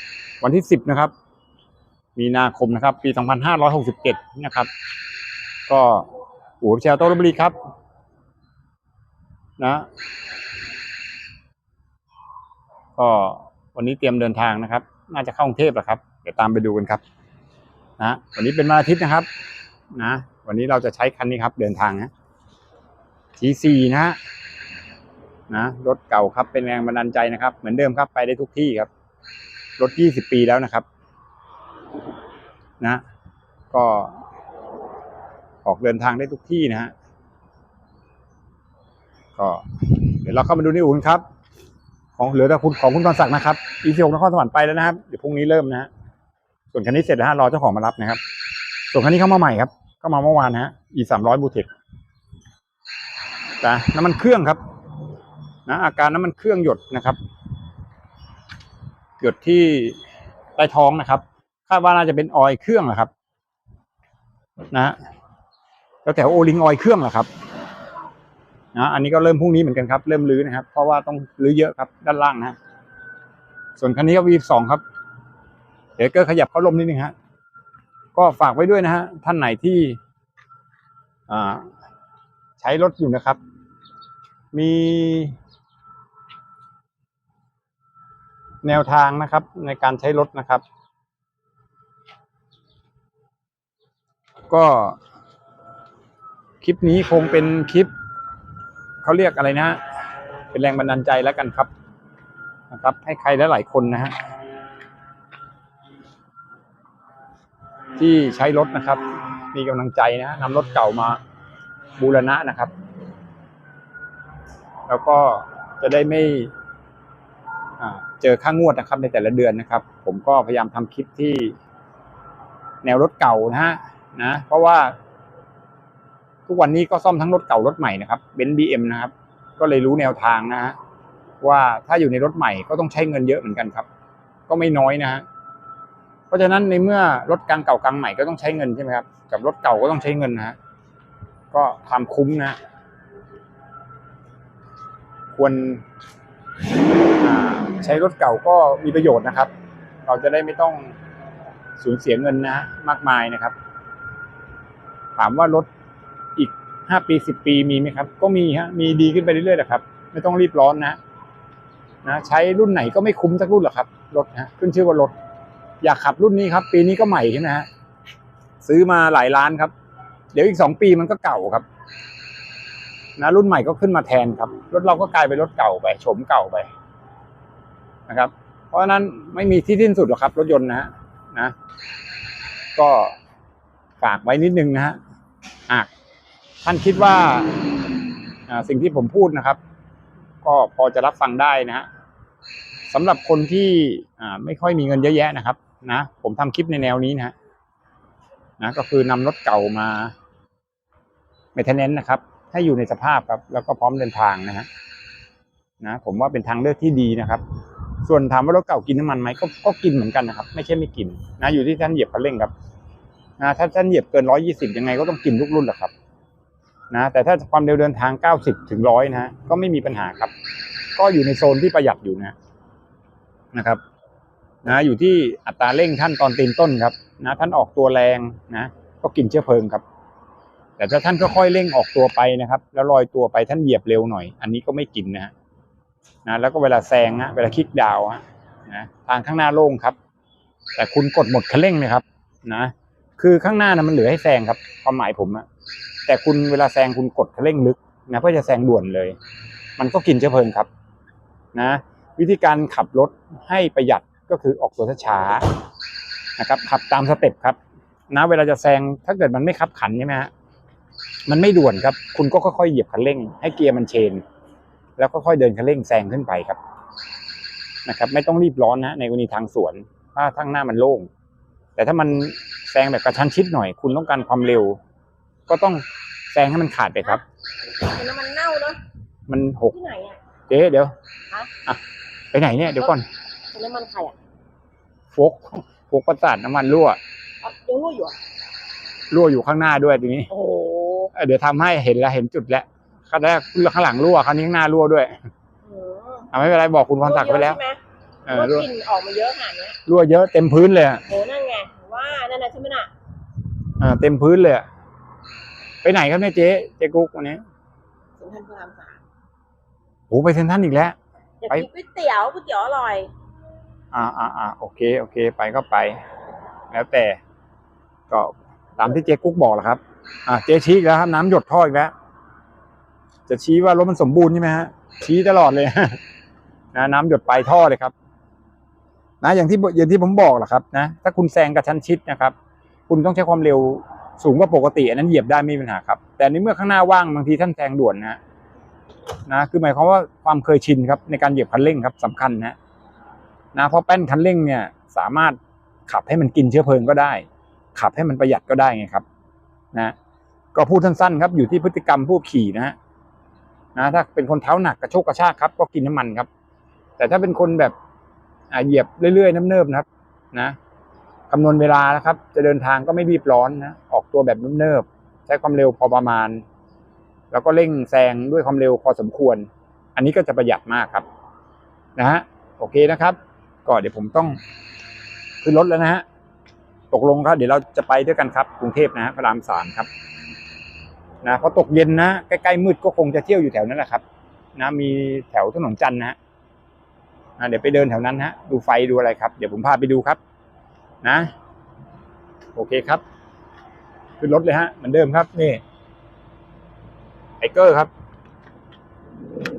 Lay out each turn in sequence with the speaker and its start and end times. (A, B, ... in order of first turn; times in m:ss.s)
0:00.4-0:01.1 A
0:02.2-0:04.7 A
0:05.7-0:06.1 A
0:06.6-0:07.6 A
0:09.6-0:09.9 A
0:13.0-0:17.0 A
0:18.0-0:19.3 A
0:19.9-0:22.1 A
0:23.4-0:24.2 A
0:25.5-0:28.9 A
0:29.8-0:30.9 A
0:33.7-0:34.2 A
0:35.6-0:36.9 A
0:39.4-0:41.2 A
0:42.2-0:45.9 A
0:46.7-0:48.2 A
0:48.9-0:51.7 A
0:53.6-0:54.6 A
0:55.7-0:57.2 A
0:59.2-1:00.0 A
1:00.6-1:03.1 A
1:06.0-1:07.3 A
1:08.7-1:12.6 A
1:13.8-1:14.8 A
1:16.0-1:17.1 A
1:18.2-1:20.0 A
1:21.3-1:21.7 A
1:22.6-1:23.4 A
1:24.5-1:25.4 A
1:28.6-1:30.6 A
1:34.5-1:35.0 A
1:36.6-1:37.9 A
1:39.0-1:39.8 A
1:40.5-1:41.7 A
1:42.7-1:44.2 A
1:48.0-1:49.0 A
1:49.5-1:51.2 A
1:52.0-1:52.7 A
1:54.9-1:56.5 A
1:57.8-2:01.6 A
2:02.8-2:05.0 A
2:06.5-2:10.8 A
2:11.4-2:13.9 A
2:14.5-2:15.2 A
2:16.3-2:20.6 A
2:21.5-2:22.6 A
2:25.4-2:25.8 A
2:27.2-2:29.5 A
2:30.0-2:31.0 A
2:31.8-2:33.6 A
2:35.2-2:35.7 A
2:36.4-2:41.0 A
2:42.0-2:45.1 A
2:45.8-2:47.7 A
2:48.6-2:49.7 A
2:50.3-2:51.7 A
2:53.2-2:56.7 A
2:58.1-3:01.5 A
3:02.8-3:03.2 A
3:04.0-3:05.0 A
3:06.6-3:07.6 A
3:08.5-3:09.6 A
3:10.4-3:11.9 A
3:12.9-3:17.3 A
3:18.6-3:20.1 A
3:21.6-3:24.7 A
3:25.8-3:27.4 A
3:28.0-3:32.5 A
3:33.4-3:35.9 A
3:36.9-3:40.3 A
3:41.0-3:42.4 A
3:43.5-3:43.8 A
3:44.6-3:49.8 A
3:50.8-3:55.3 A
3:56.3-4:00.0 A
4:00.8-4:05.4 A
4:06.1-4:09.2 A
4:09.8-4:10.7 A
4:11.5-4:15.5 A
4:16.4-4:17.6 A
4:18.1-4:20.3 A
4:21.3-4:24.2 A
4:25.0-4:26.6 A
4:27.9-4:31.1 A
4:31.8-4:34.8 A
4:35.5-4:37.2 A
4:37.8-4:38.8 B
4:39.3-4:39.8 A
4:39.7-4:40.2 B
4:40.5-4:40.9 A
4:42.3-4:43.0 A
4:43.5-4:44.2 B
4:45.1-4:47.0 A
4:47.4-4:48.2 B
4:49.1-4:50.3 A
4:50.3-4:51.1 B
4:51.1-4:55.1 A
4:55.6-4:56.3 B
4:56.3-4:57.6 A
4:57.0-4:59.8 B
4:58.3-4:58.7 A
4:59.9-5:01.0 A
5:01.1-5:02.9 B
5:03.8-5:04.6 A
5:05.8-5:07.4 A
5:08.2-5:09.0 B
5:10.1-5:11.0 A
5:11.4-5:13.1 B
5:13.9-5:16.0 A
5:16.7-5:17.2 A
5:18.1-5:21.9 A
5:23.3-5:26.0 A
5:26.7-5:27.9 A
5:29.2-5:32.4 A
5:32.9-5:38.2 A
5:39.3-5:42.6 A
5:43.5-5:49.0 A
5:50.5-5:52.8 A
5:53.8-5:56.3 A
5:57.0-5:57.7 A
5:58.5-6:00.6 A
6:01.3-6:06.4 A
6:07.3-6:11.1 A
6:12.0-6:14.4 A
6:15.4-6:16.0 A
6:16.9-6:19.9 A
6:21.2-6:24.0 A
6:24.6-6:26.2 A
6:27.4-6:30.2 A
6:31.0-6:31.3 A
6:32.6-6:33.0 A
6:34.2-6:35.6 A
6:37.4-6:37.9 A